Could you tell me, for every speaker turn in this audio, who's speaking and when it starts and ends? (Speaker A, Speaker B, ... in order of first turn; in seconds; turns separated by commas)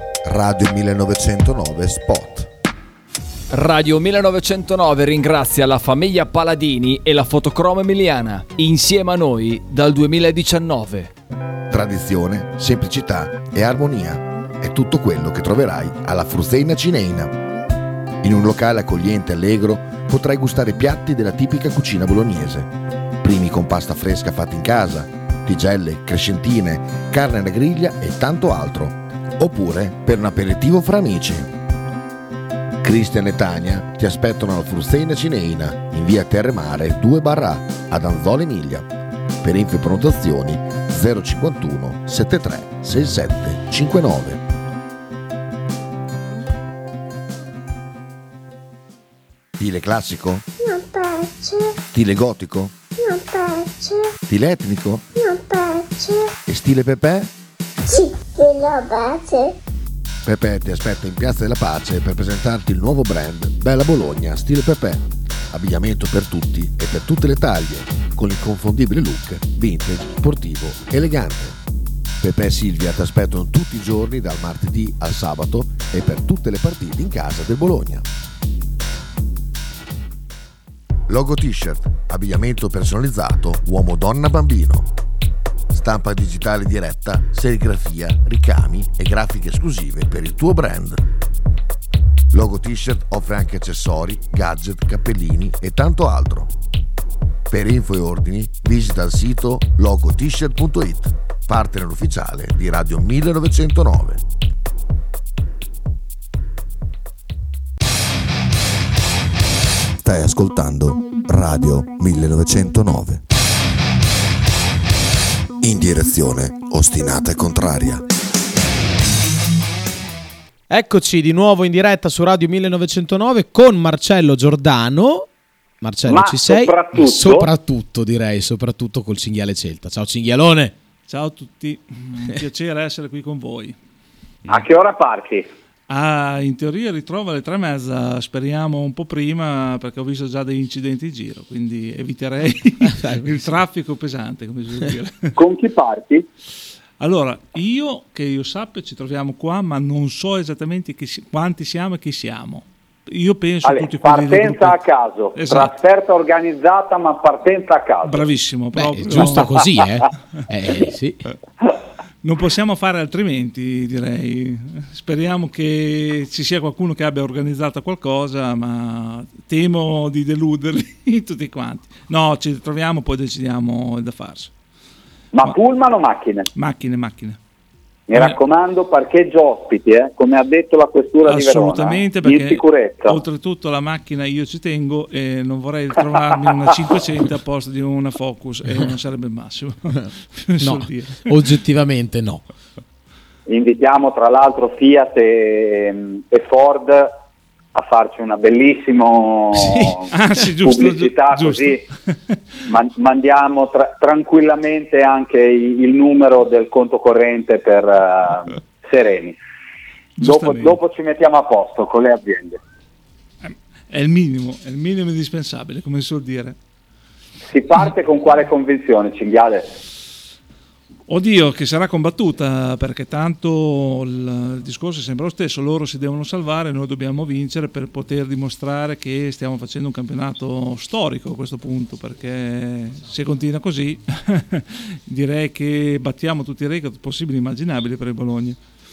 Speaker A: 0.2-2.5, Speaker B: 3.5-11.1, Speaker A: 11.7-17.4, Speaker A: 18.2-31.5, Speaker A: 32.8-38.9, Speaker A: 39.4-44.4, Speaker A: 49.6-50.5, Speaker C: 50.6-51.8, Speaker A: 51.9-52.7, Speaker C: 53.0-54.1, Speaker A: 54.3-55.0, Speaker C: 55.2-56.3, Speaker A: 56.5-57.3, Speaker C: 57.9-59.6, Speaker A: 60.2-71.6, Speaker A: 72.2-78.1, Speaker A: 81.1-84.9, Speaker A: 85.7-91.0, Speaker A: 92.3-96.5, Speaker A: 97.5-104.2, Speaker A: 110.0-113.2, Speaker A: 115.6-118.0, Speaker D: 120.7-125.3, Speaker D: 125.8-130.7, Speaker E: 126.1-127.5, Speaker F: 131.1-133.8, Speaker E: 134.5-135.5, Speaker F: 135.9-145.4, Speaker D: 142.9-143.3, Speaker E: 145.4-146.3, Speaker F: 147.0-154.8, Speaker E: 153.6-158.3, Speaker F: 155.3-155.7, Speaker F: 158.0-159.6, Speaker D: 158.8-161.2, Speaker F: 162.2-174.5, Speaker E: 175.3-176.5, Speaker F: 176.6-177.4, Speaker E: 178.1-183.2, Speaker F: 181.3-191.3, Speaker D: 190.6-192.4, Speaker E: 193.5-197.1, Speaker E: 197.7-200.1, Speaker D: 199.6-200.0, Speaker F: 200.1-202.4, Speaker E: 200.6-201.8, Speaker E: 202.7-209.4, Speaker F: 210.2-210.8, Speaker E: 210.2-212.6, Speaker F: 213.4-216.6, Speaker E: 217.5-219.8, Speaker F: 221.1-238.6